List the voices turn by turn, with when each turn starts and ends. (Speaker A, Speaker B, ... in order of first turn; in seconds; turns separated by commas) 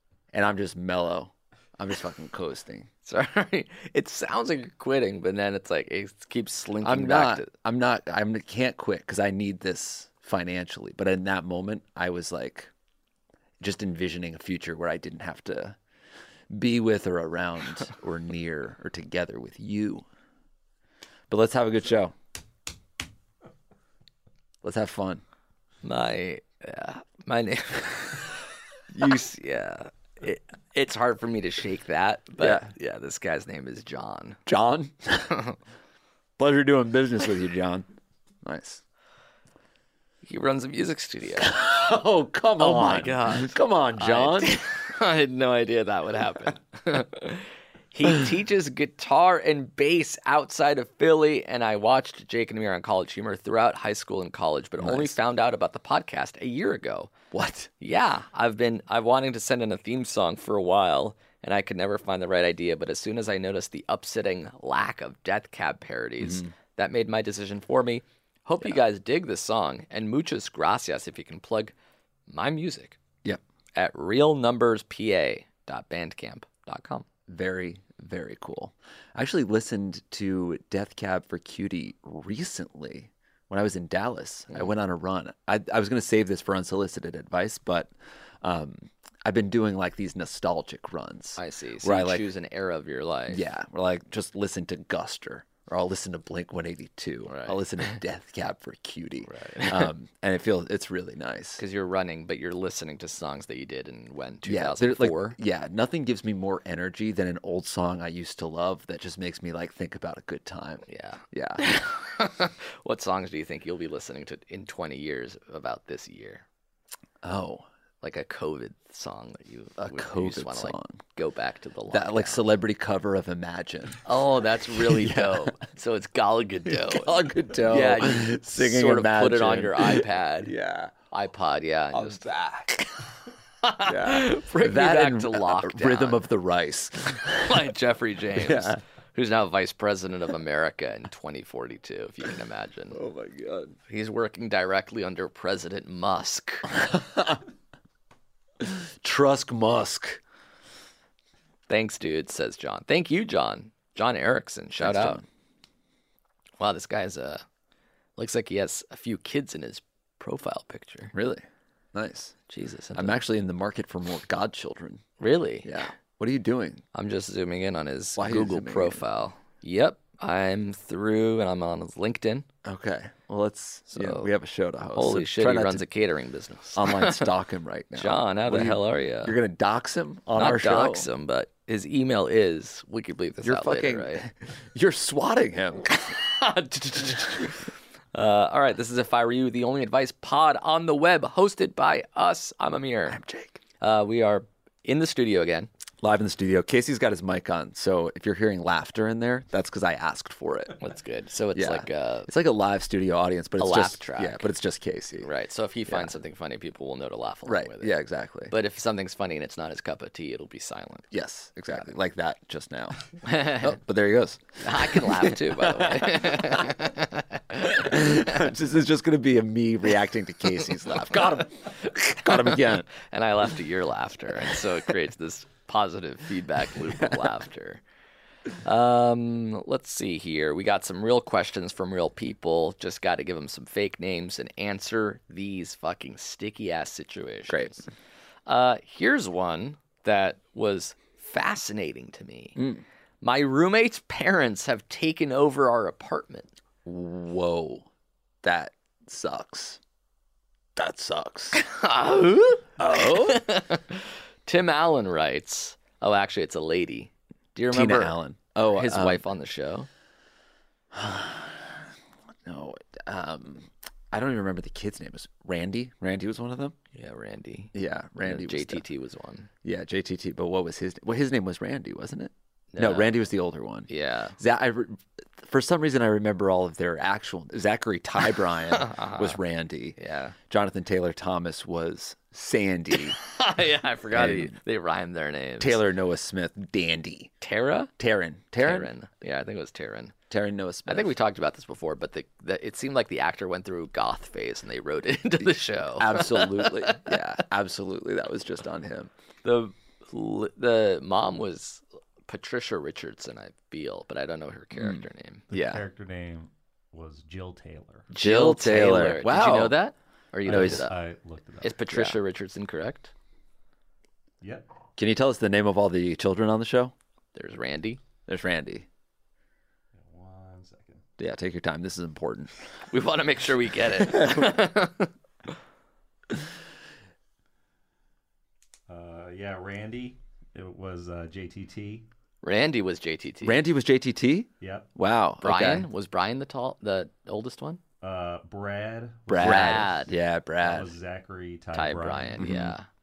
Speaker A: 0.3-2.9, Speaker B: 3.0-7.5, Speaker A: 6.8-12.7, Speaker A: 13.6-15.8, Speaker A: 16.5-20.1, Speaker A: 21.3-22.1, Speaker A: 24.6-25.2, Speaker B: 25.8-34.4, Speaker A: 32.4-32.7, Speaker A: 34.5-35.4, Speaker A: 36.4-37.9, Speaker A: 38.4-38.8, Speaker B: 40.2-41.6, Speaker A: 41.4-44.6, Speaker B: 42.6-57.1, Speaker A: 54.8-55.2, Speaker A: 57.3-57.7, Speaker B: 57.8-71.7, Speaker A: 66.2-66.5, Speaker B: 72.3-73.0, Speaker B: 73.8-77.0, Speaker A: 77.3-92.3, Speaker B: 91.4-93.4, Speaker A: 93.3-101.6, Speaker B: 97.3-97.6, Speaker B: 99.2-99.9, Speaker B: 101.6-105.4, Speaker A: 104.4-111.9, Speaker B: 110.9-116.4, Speaker A: 117.2-117.7, Speaker B: 118.0-122.5, Speaker A: 119.8-121.0, Speaker A: 121.9-124.1, Speaker B: 124.0-130.5, Speaker A: 124.8-125.6, Speaker A: 126.7-130.9, Speaker B: 131.1-132.2, Speaker A: 131.9-133.0, Speaker B: 133.6-136.2, Speaker A: 133.8-137.7, Speaker B: 137.4-143.0, Speaker A: 138.3-138.8, Speaker A: 142.9-143.8, Speaker B: 143.9-146.7, Speaker A: 146.8-147.4, Speaker A: 148.6-150.2, Speaker B: 151.7-155.2, Speaker A: 154.8-155.2, Speaker B: 156.6-157.4, Speaker B: 158.2-161.1, Speaker A: 161.1-162.3, Speaker B: 162.5-163.2, Speaker A: 162.9-165.0, Speaker B: 165.2-165.8, Speaker A: 165.6-166.8, Speaker B: 166.9-172.5, Speaker A: 168.2-169.0, Speaker A: 172.7-175.8, Speaker B: 173.9-174.3, Speaker B: 174.9-177.3, Speaker A: 176.8-181.1, Speaker B: 178.0-179.4, Speaker B: 180.4-184.2, Speaker A: 183.4-186.2, Speaker B: 186.2-193.2, Speaker A: 193.1-193.6, Speaker B: 193.8-195.7, Speaker A: 196.0-200.8, Speaker B: 200.8-202.3, Speaker A: 201.6-205.3, Speaker B: 203.6-204.5, Speaker B: 205.2-208.0, Speaker A: 207.5-208.5, Speaker B: 208.5-211.1, Speaker A: 211.1-213.0, Speaker B: 213.2-213.7, Speaker A: 213.5-216.7, Speaker B: 214.6-218.4, Speaker A: 217.7-222.9, Speaker B: 222.2-227.8, Speaker B: 228.6-237.8, Speaker A: 237.5-237.8, Speaker B: 238.5-242.6, Speaker A: 242.6-242.8, Speaker B: 243.2-246.5, Speaker A: 246.8-247.9, Speaker A: 248.4-249.8, Speaker A: 250.8-251.6, Speaker B: 251.5-259.9, Speaker A: 252.8-253.4, Speaker A: 257.7-259.2, Speaker A: 260.9-261.8, Speaker A: 262.4-266.8, Speaker B: 266.9-269.5, Speaker A: 267.7-268.9, Speaker A: 269.6-280.0, Speaker B: 272.7-273.2, Speaker B: 273.9-274.4, Speaker B: 278.7-279.4, Speaker B: 280.0-280.4, Speaker A: 280.5-283.2, Speaker B: 283.2-285.9, Speaker A: 284.1-284.6, Speaker A: 285.6-287.3, Speaker B: 287.4-287.9, Speaker A: 288.0-288.9, Speaker B: 288.6-290.1, Speaker A: 290.3-291.1, Speaker B: 290.9-297.1, Speaker A: 295.4-299.1, Speaker B: 299.4-305.5, Speaker A: 304.8-305.9, Speaker C: 305.5-308.1, Speaker B: 308.1-311.0, Speaker A: 308.1-309.8, Speaker C: 310.4-312.0, Speaker A: 310.5-310.9, Speaker B: 311.6-313.1, Speaker C: 314.4-314.7, Speaker A: 315.0-316.9, Speaker B: 317.4-318.0, Speaker A: 318.3-318.9, Speaker C: 319.9-321.0, Speaker A: 321.2-322.5, Speaker B: 322.9-325.1, Speaker A: 324.1-324.5, Speaker C: 328.9-332.1, Speaker B: 332.4-333.6, Speaker A: 333.4-335.9, Speaker C: 334.6-334.9, Speaker B: 335.4-337.8, Speaker C: 338.0-339.8, Speaker A: 339.3-341.0, Speaker B: 339.4-340.1, Speaker C: 340.6-342.5, Speaker B: 341.7-342.9, Speaker A: 342.4-342.8